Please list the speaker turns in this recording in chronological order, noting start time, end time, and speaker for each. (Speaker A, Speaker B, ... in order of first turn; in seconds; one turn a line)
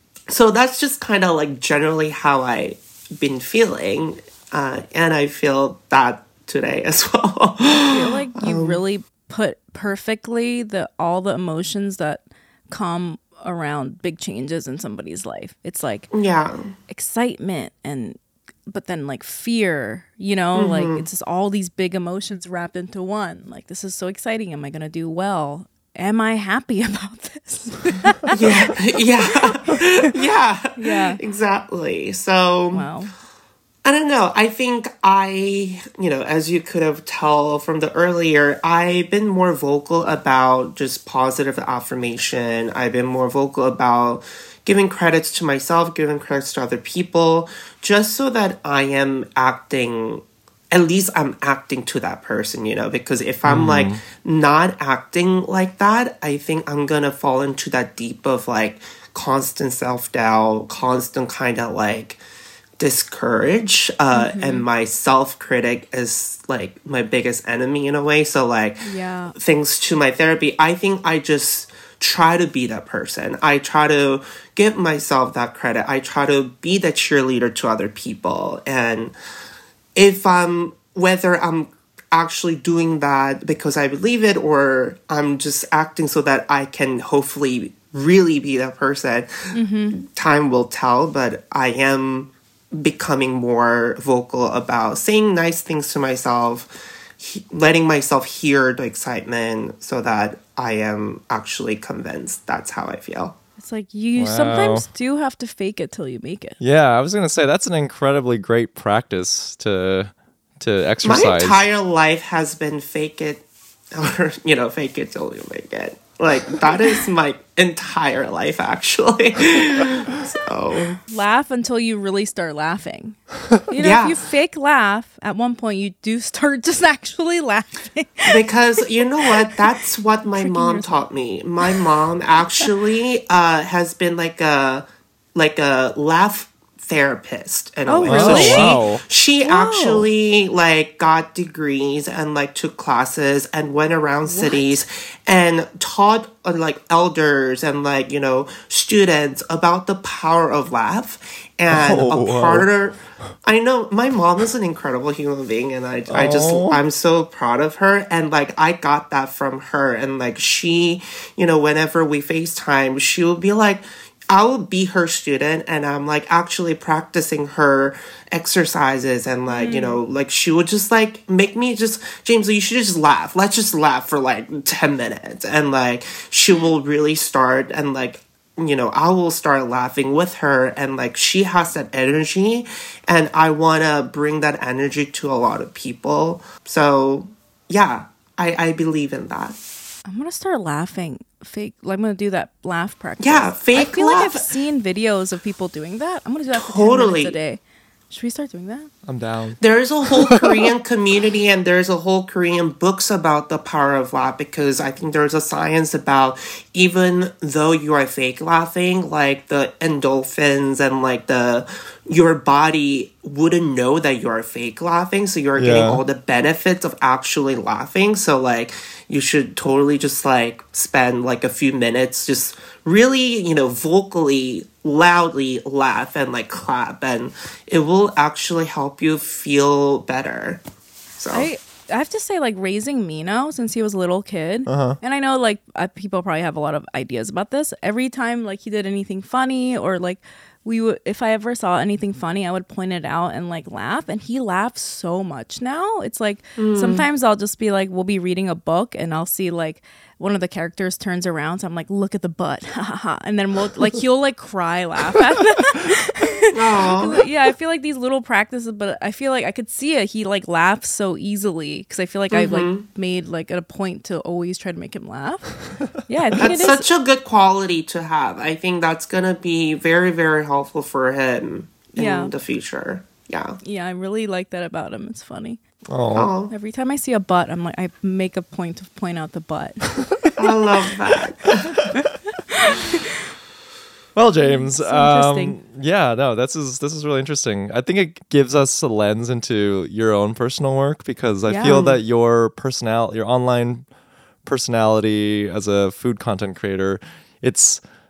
Speaker A: 0.3-8.8
Speaker B: 7.9-16.1
Speaker A: 16.1-16.7
Speaker B: 16.9-28.8
Speaker A: 20.5-21.0
Speaker A: 28.3-32.9
Speaker B: 29.4-30.1
Speaker B: 30.8-31.2
Speaker B: 32.7-33.1
Speaker A: 33.8-62.2
Speaker C: 53.5-54.0
Speaker A: 62.8-79.1
Speaker B: 64.1-64.6
Speaker B: 68.8-69.3
Speaker A: 80.0-103.3
Speaker B: 89.5-90.0
Speaker B: 103.6-106.6
Speaker C: 104.2-104.8
Speaker C: 106.6-111.7
Speaker A: 111.0-121.0
Speaker B: 121.1-128.4
Speaker A: 123.8-124.2
Speaker A: 128.2-189.6
Speaker B: 130.4-130.9
Speaker B: 137.9-138.8
Speaker C: 138.1-139.0
Speaker B: 139.4-140.1
Speaker B: 144.2-144.8
Speaker C: 151.7-152.7
Speaker C: 156.1-156.8
Speaker B: 169.5-170.0
Speaker B: 190.1-198.9
Speaker A: 193.2-194.4
Speaker A: 196.5-197.3
Speaker C: 199.1-199.6
Speaker A: 199.6-230.6
Speaker C: 200.2-200.7
Speaker C: 215.6-216.0
Speaker A: 231.2-231.5
Speaker B: 231.3-266.8
Speaker C: 234.7-235.0
Speaker A: 246.6-247.0
Speaker A: 256.5-257.2
Speaker A: 262.3-262.8
Speaker A: 266.4-273.6
Speaker B: 271.9-272.3
Speaker B: 273.6-275.6
Speaker C: 275.9-276.3
Speaker A: 276.1-276.5
Speaker B: 276.5-280.4
Speaker A: 280.4-281.8
Speaker B: 281.8-283.2
Speaker C: 284.1-293.9
Speaker B: 284.4-285.6
Speaker B: 291.5-291.8
Speaker A: 291.6-292.0
Speaker C: 294.4-297.8